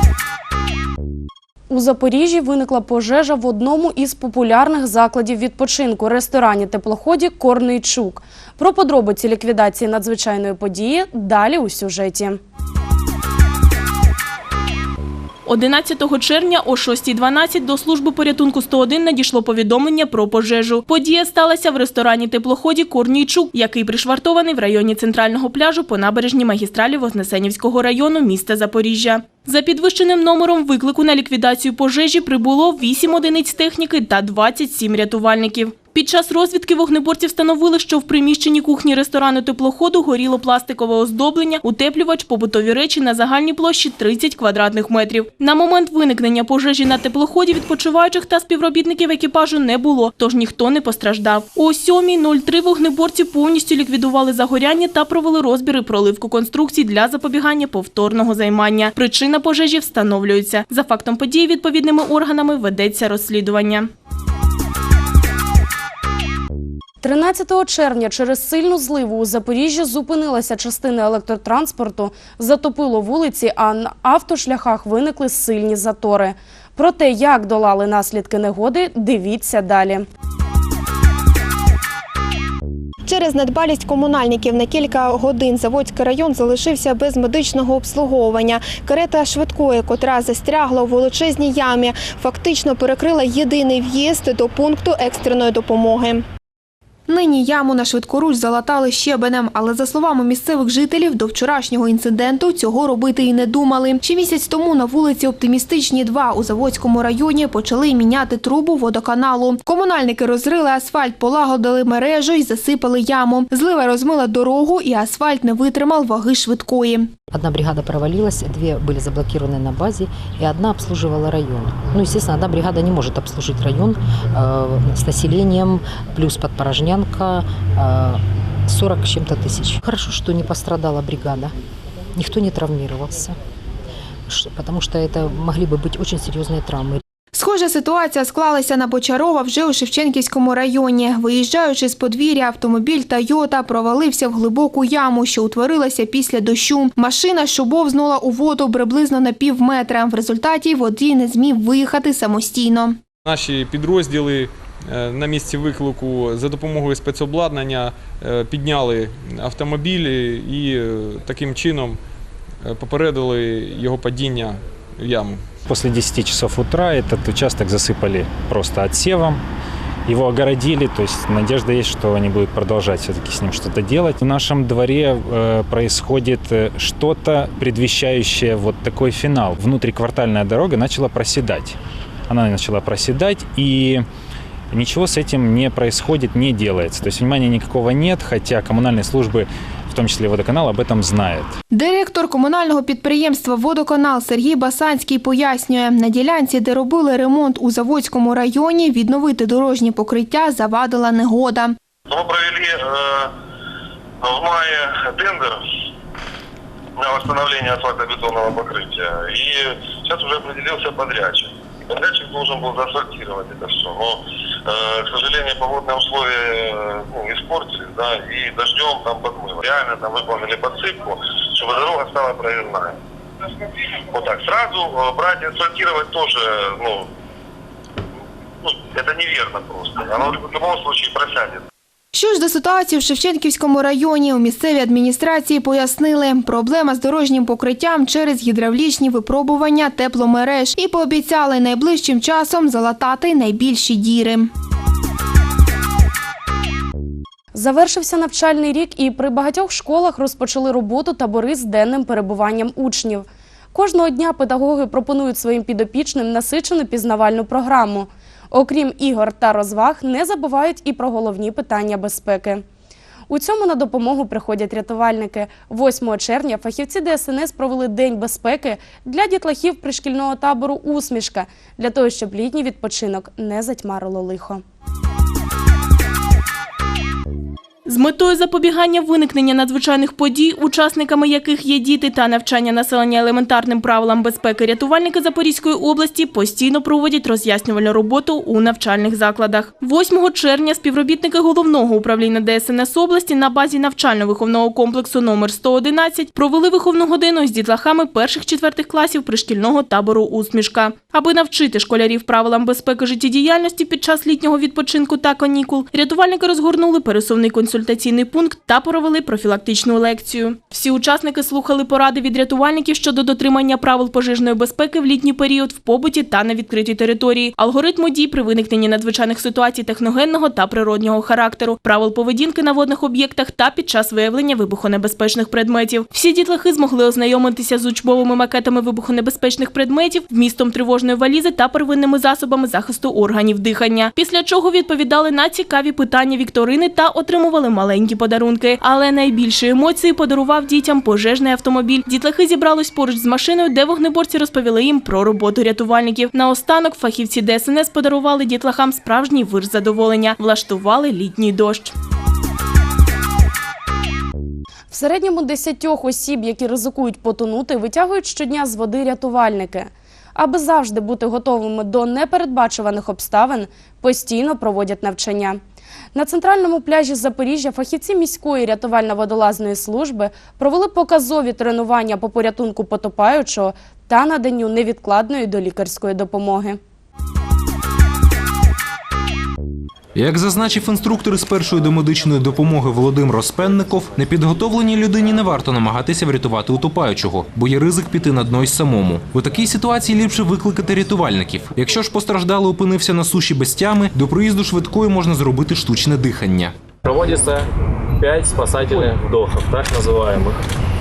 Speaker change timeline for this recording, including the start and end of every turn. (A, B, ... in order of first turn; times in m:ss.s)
0:01.7-0:12.4 A
0:15.5-1:03.9 B
1:07.0-1:20.1 A
1:23.1-1:36.2 C
1:37.1-1:57.2 C
1:57.3-2:11.5 D
2:12.2-2:13.4 D
2:14.3-2:17.0 D
2:17.3-2:33.0 C
2:33.2-2:42.0 E
2:42.6-2:45.4 E
2:45.7-2:49.4 F
2:50.1-3:01.8 F
3:02.3-3:04.0 F
3:04.7-3:11.5 F
3:11.7-3:21.8 C
3:22.1-3:23.3 G
3:24.2-3:25.6 G
3:27.0-3:43.0 G
3:44.1-3:47.1 G
3:48.6-3:51.6 G
3:52.1-4:04.5 C
4:07.5-4:22.6 A
4:23.3-4:34.6 A
4:37.9-5:51.9 B
5:54.9-6:05.6 A
6:06.1-6:16.8 A
6:20.2-6:36.7 H
6:37.0-6:37.7 I
6:38.2-6:40.6 I